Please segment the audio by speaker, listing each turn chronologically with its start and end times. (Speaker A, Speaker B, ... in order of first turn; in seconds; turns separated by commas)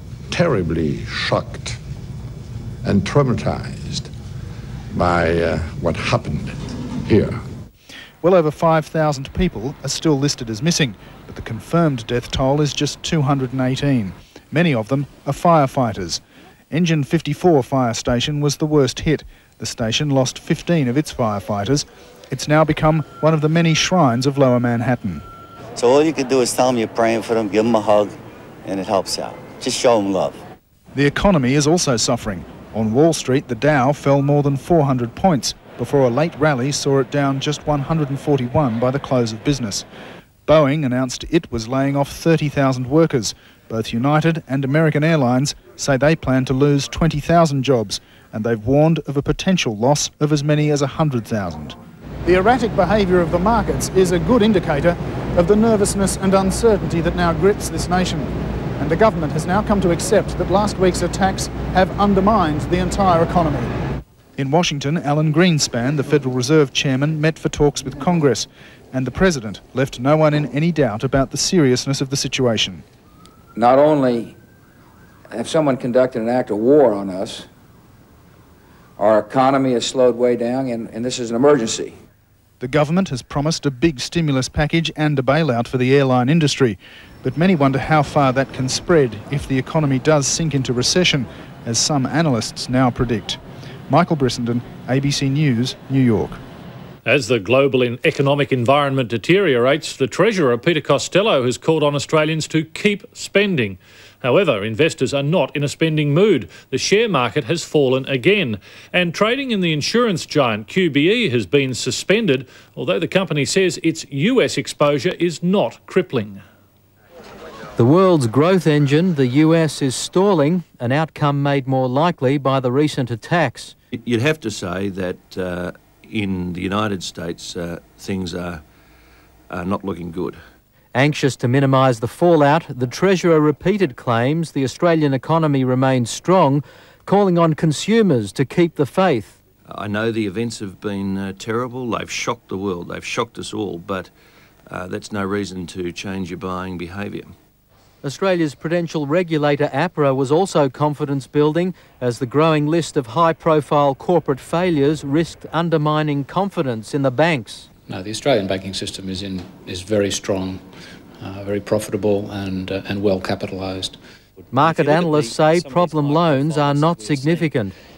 Speaker A: 0.3-1.8, Speaker A: 2.8-4.1, Speaker A: 4.9-7.4, Speaker B: 8.2-25.2, Speaker C: 25.8-28.1, Speaker C: 28.6-30.4, Speaker B: 30.9-39.8, Speaker B: 40.5-63.7, Speaker B: 64.4-72.8, Speaker D: 73.5-74.3, Speaker D: 75.3-77.5, Speaker D: 79.0-82.0, Speaker B: 82.6-96.4, Speaker E: 97.0-116.4, Speaker F: 117.8-123.8, Speaker G: 123.9-128.6, Speaker G: 129.5-130.4, Speaker F: 130.9-139.4, Speaker G: 139.7-144.1, Speaker G: 144.7-147.3, Speaker F: 148.0-157.7, Speaker H: 157.9-160.6, Speaker H: 161.2-164.0, Speaker F: 164.5-167.7